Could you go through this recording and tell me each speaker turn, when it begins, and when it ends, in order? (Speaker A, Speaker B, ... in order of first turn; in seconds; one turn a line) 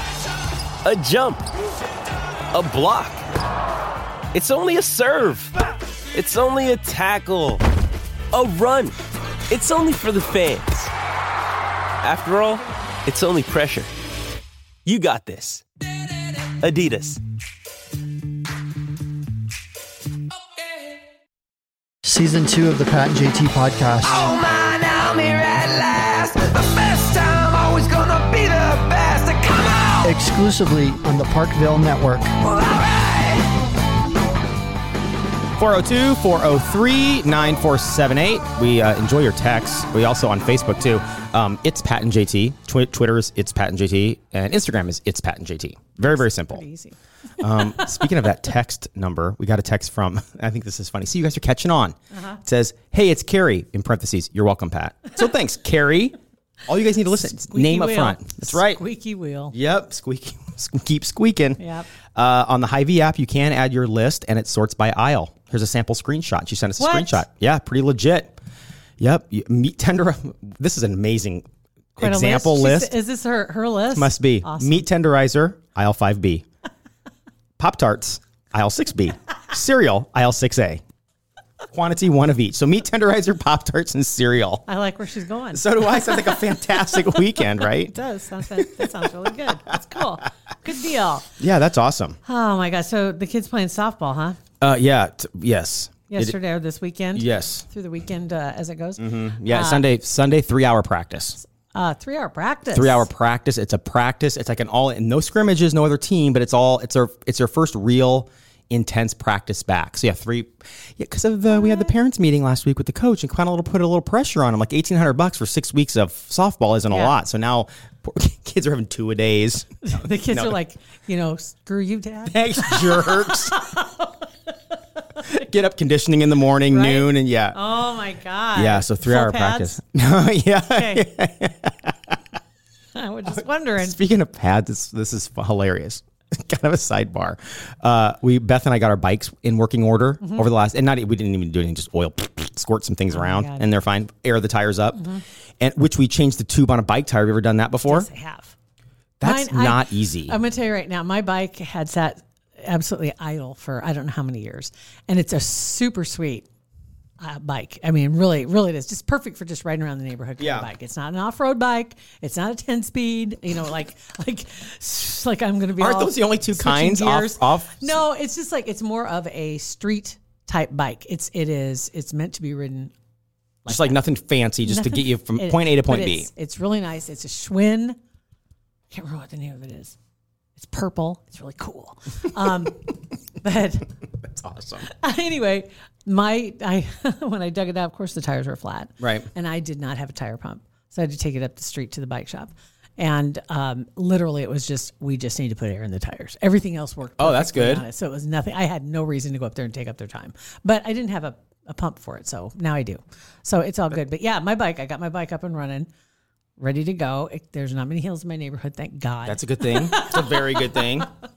Speaker A: 0.8-1.5
Speaker A: 2.5-3.2
Speaker A: 4.3-5.5
Speaker A: 6.1-7.6
Speaker A: 8.3-9.0
Speaker A: 9.5-10.9
Speaker A: 12.0-13.9
Speaker A: 14.8-15.7
Speaker A: 16.4-17.2
Speaker B: 22.0-24.2
Speaker C: 24.1-30.0
Speaker B: 30.0-32.3
Speaker C: 32.7-33.4
Speaker D: 35.6-46.6
Speaker E: 46.0-47.0
Speaker D: 47.4-56.2
Speaker E: 52.1-52.4
Speaker D: 56.7-58.8
Speaker E: 57.4-59.5
Speaker D: 59.5-61.6
Speaker E: 61.6-61.9
Speaker D: 62.1-68.4
Speaker E: 66.8-67.2
Speaker D: 69.0-71.5
Speaker D: 72.0-73.0
Speaker E: 72.0-74.9
Speaker D: 73.9-76.5
Speaker D: 77.6-80.8
Speaker D: 81.7-84.6
Speaker E: 84.7-91.3
Speaker D: 85.5-87.9
Speaker D: 88.5-89.0
Speaker D: 91.4-92.2
Speaker E: 92.2-94.4
Speaker D: 94.6-96.4
Speaker E: 96.1-99.9
Speaker D: 97.1-97.7
Speaker D: 99.0-101.4
Speaker E: 101.6-103.1
Speaker D: 102.7-120.6
Speaker E: 111.6-111.9
Speaker E: 116.9-117.2
Speaker E: 119.8-124.3
Speaker D: 122.2-123.6
Speaker D: 125.2-127.6
Speaker E: 126.7-129.8
Speaker D: 128.5-132.2
Speaker E: 130.7-131.1
Speaker E: 132.9-134.0
Speaker D: 133.8-148.1
Speaker E: 140.2-140.5
Speaker E: 143.1-143.7
Speaker E: 145.0-145.2
Speaker E: 147.9-148.5
Speaker D: 149.2-150.4
Speaker E: 149.2-156.5
Speaker E: 157.2-172.9
Speaker D: 160.4-160.7
Speaker D: 165.8-168.0
Speaker E: 173.7-174.0
Speaker D: 173.7-176.3
Speaker E: 174.6-178.0
Speaker E: 178.9-180.0
Speaker E: 180.6-183.9
Speaker D: 184.2-184.9
Speaker E: 184.8-205.9
Speaker D: 189.0-189.3
Speaker D: 197.2-197.8
Speaker E: 206.6-210.9
Speaker D: 209.2-211.1